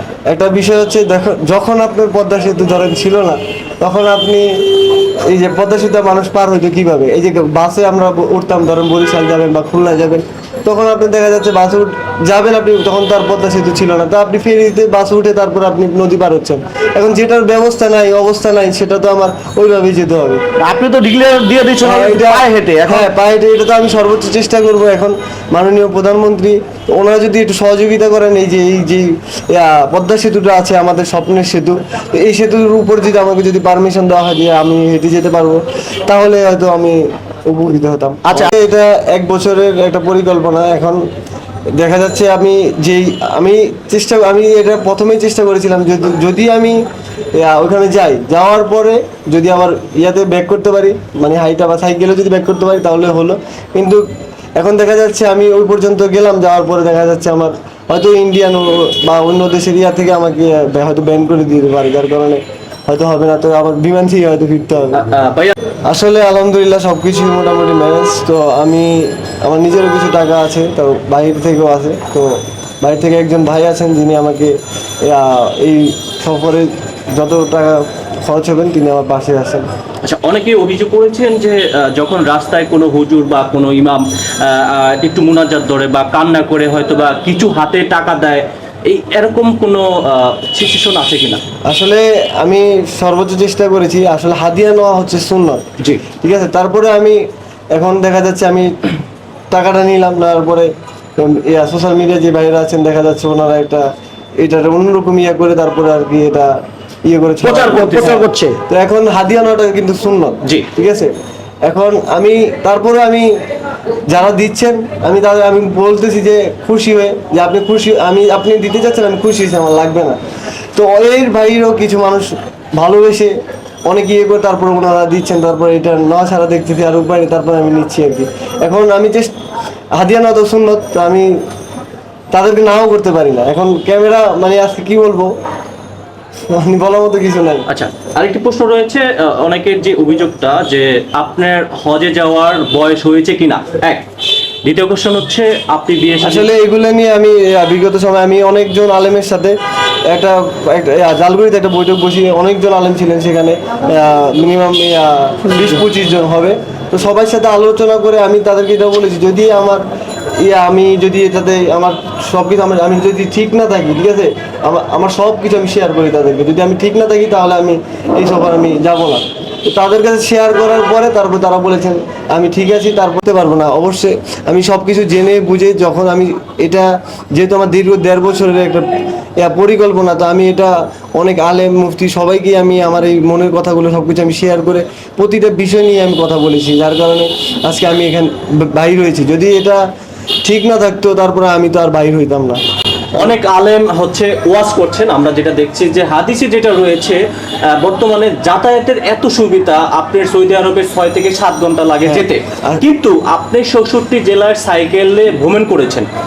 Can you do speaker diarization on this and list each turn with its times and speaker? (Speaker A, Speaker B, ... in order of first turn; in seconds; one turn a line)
Speaker A: 0.3-20.4
Speaker B: 20.6-23.1
Speaker A: 21.8-41.0
Speaker A: 41.7-46.8
Speaker A: 47.3-54.0
Speaker A: 54.6-65.0
Speaker C: 64.9-65.5
Speaker A: 65.8-79.7
Speaker C: 80.0-91.4
Speaker A: 91.6-95.7
Speaker A: 96.2-97.2
Speaker A: 97.7-98.8
Speaker A: 99.5-103.9
Speaker A: 104.4-111.1
Speaker B: 107.4-108.6
Speaker C: 107.7-108.1
Speaker A: 111.7-113.3
Speaker A: 114.1-120.2
Speaker A: 120.7-123.3
Speaker A: 123.8-129.3
Speaker A: 129.9-131.3
Speaker A: 132.3-135.3
Speaker A: 136.5-137.7
Speaker C: 137.7-144.1
Speaker C: 144.6-146.5
Speaker A: 146.2-149.5
Speaker A: 150.1-159.8
Speaker A: 160.4-189.8
Speaker A: 190.4-192.6
Speaker C: 193.2-206.1
Speaker A: 202.1-202.8